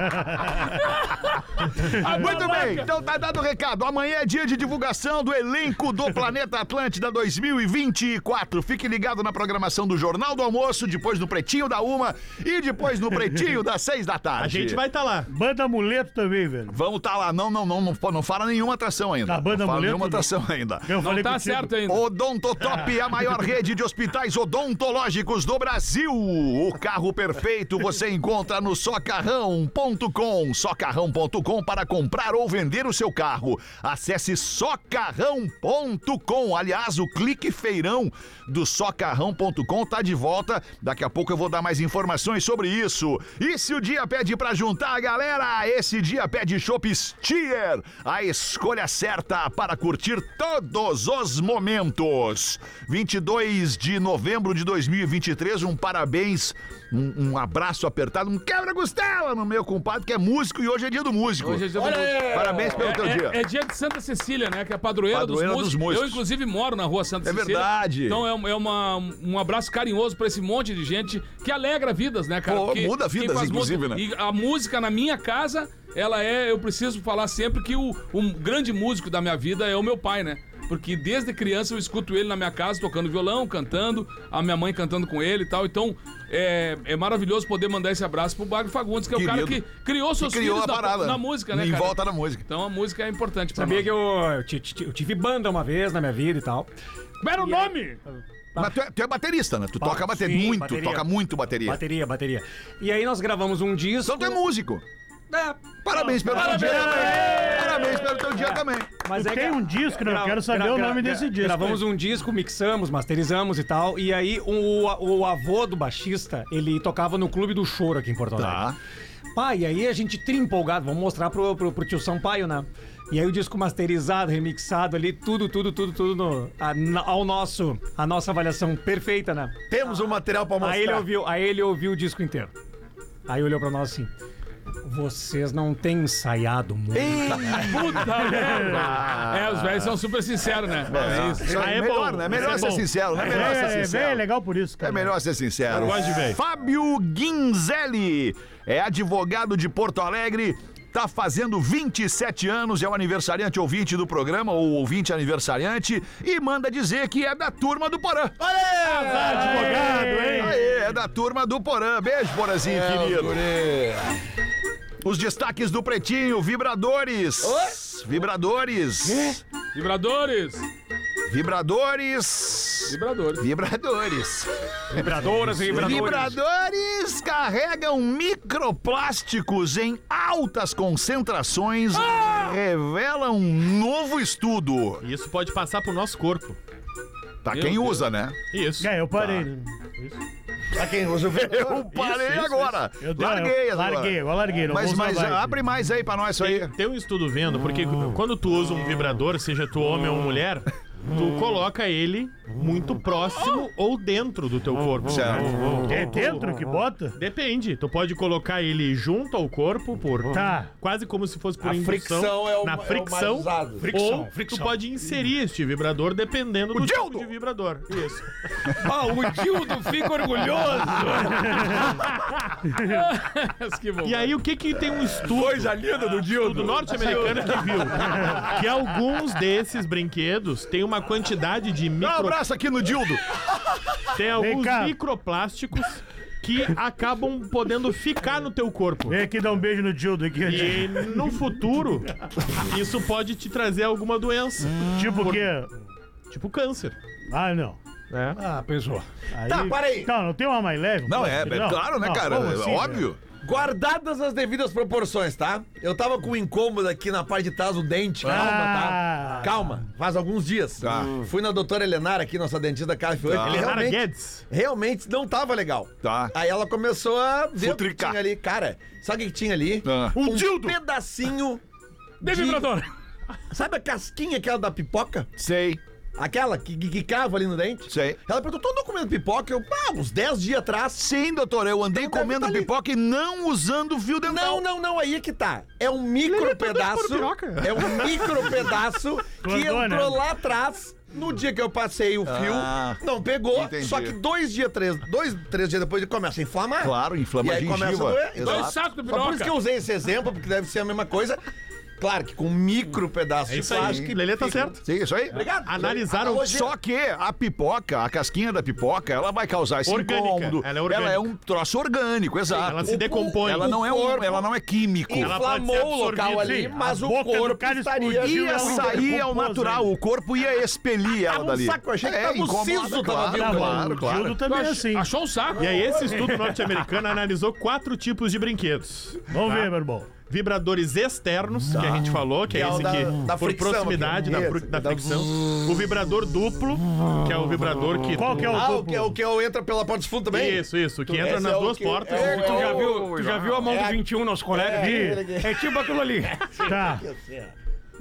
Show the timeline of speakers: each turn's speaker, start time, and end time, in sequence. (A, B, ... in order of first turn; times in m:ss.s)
0:00.4-0:02.9 A
0:01.9-0:14.8 B
0:14.4-0:15.3 C
0:15.3-0:16.8 D
0:16.7-0:21.0 B
0:19.3-0:20.3 D
0:20.8-0:21.7 D
0:21.0-0:22.0 A
0:21.9-1:01.7 B
1:01.4-1:33.9 A
1:01.7-1:02.8 E
1:02.2-1:03.4 B
1:05.1-1:06.2 B
1:07.2-1:08.2 B
1:12.4-1:14.0 B
1:29.1-1:29.6 B
1:30.2-1:32.4 B
1:33.5-1:36.7 F
1:37.2-1:38.0 A
1:37.4-1:37.7 F
1:38.6-1:41.8 B
1:39.8-1:41.1 F
1:41.6-1:44.4 F
1:44.0-1:44.8 B
1:45.3-1:58.7 F
1:45.8-1:48.9 B
1:49.2-1:51.8 D
1:58.4-1:58.8 B
1:59.4-2:09.6 F
2:09.7-2:11.1 E
2:10.6-2:12.5 F
2:13.3-2:14.1 F
2:14.8-2:17.5 F
2:16.9-2:19.9 B
2:17.5-2:21.6 A
2:18.2-2:18.8 D
2:20.9-2:24.2 B
2:21.4-2:23.0 C
2:23.2-2:25.1 D
2:24.8-2:38.4 B
2:25.7-2:26.4 C
2:38.4-2:40.4 E
2:39.1-2:40.1 C
2:39.1-2:40.6 D
2:40.3-2:43.4 B
2:42.6-2:44.1 E
2:45.0-2:49.4 B
2:47.4-2:47.8 E
2:49.0-2:49.4 F
2:49.7-2:50.6 A
2:51.3-3:05.0 B
2:52.9-2:53.5 A
2:54.9-2:56.4 F
3:01.9-3:02.5 A
3:05.0-3:06.6 C
3:07.4-3:08.4 B
3:07.5-3:09.0 C
3:08.8-3:09.8 D
3:09.2-3:09.4 B
3:10.7-3:12.0 E
3:11.4-3:16.7 B
3:12.0-3:12.8 C
3:13.0-3:15.6 D
3:16.4-3:26.4 C
3:25.1-3:25.6 B
3:25.9-3:27.2 D
3:27.2-3:38.3 C
3:30.3-3:30.7 D
3:31.6-3:33.9 E
3:33.9-3:34.8 F
3:36.8-3:37.2 B
3:38.8-3:41.8 F
3:41.5-3:41.8 D
3:42.7-3:44.3 A
3:44.0-3:52.4 C
3:45.2-3:47.8 E
3:48.1-3:48.4 D
3:52.0-3:53.2 B
3:54.1-3:59.2 C
3:54.4-3:55.0 D
3:59.1-4:01.4 D
4:00.4-4:04.9 C
4:04.6-4:05.4 B
4:04.9-4:05.7 D
4:06.3-4:07.0 C
4:07.3-4:07.8 D
4:08.1-4:08.4 C
4:08.4-4:09.1 F
4:09.3-4:13.0 D
4:09.4-4:10.1 E
4:11.1-4:13.2 B
4:13.4-4:31.6 E
4:18.2-4:19.5 D
4:20.8-4:21.2 B
4:23.2-4:23.8 B
4:23.4-4:24.5 C
4:26.0-4:26.3 B
4:27.6-4:28.2 B
4:29.8-4:30.7 B
4:30.3-4:30.7 C
4:32.2-4:32.7 E
4:32.2-4:32.9 A
4:33.5-4:35.3 E
4:35.4-4:35.8 B
4:36.2-4:41.1 E
4:37.9-4:38.2 B
4:41.0-4:44.6 B
4:41.9-4:42.7 E
4:44.3-5:01.4 E
4:46.2-4:48.6 C
4:49.4-4:50.2 D
4:52.2-4:54.2 B
4:56.8-4:58.8 B
4:58.4-4:59.6 A
5:02.0-5:04.8 E
5:03.5-5:04.8 C
5:03.8-5:04.1 B
5:04.8-5:05.4 B
5:05.3-5:06.7 E
5:05.6-5:06.5 C
5:06.4-5:15.4 B
5:09.9-5:11.3 C
5:12.5-5:13.8 C
5:12.8-5:14.5 E
5:15.1-5:19.1 E
5:15.2-5:16.7 C
5:16.3-5:19.9 D
5:18.2-5:24.4 B
5:21.1-5:24.0 E
5:23.4-5:25.1 D
5:24.5-5:25.7 A
5:25.5-5:26.5 E
5:25.6-5:29.7 C
5:29.3-5:30.1 D
5:30.3-5:38.6 C
5:31.7-5:35.3 E
5:38.2-5:39.2 D
5:38.5-5:47.5 E
5:40.3-5:42.8 C
5:42.1-5:46.5 F
5:44.8-5:45.2 D
5:46.6-5:47.1 D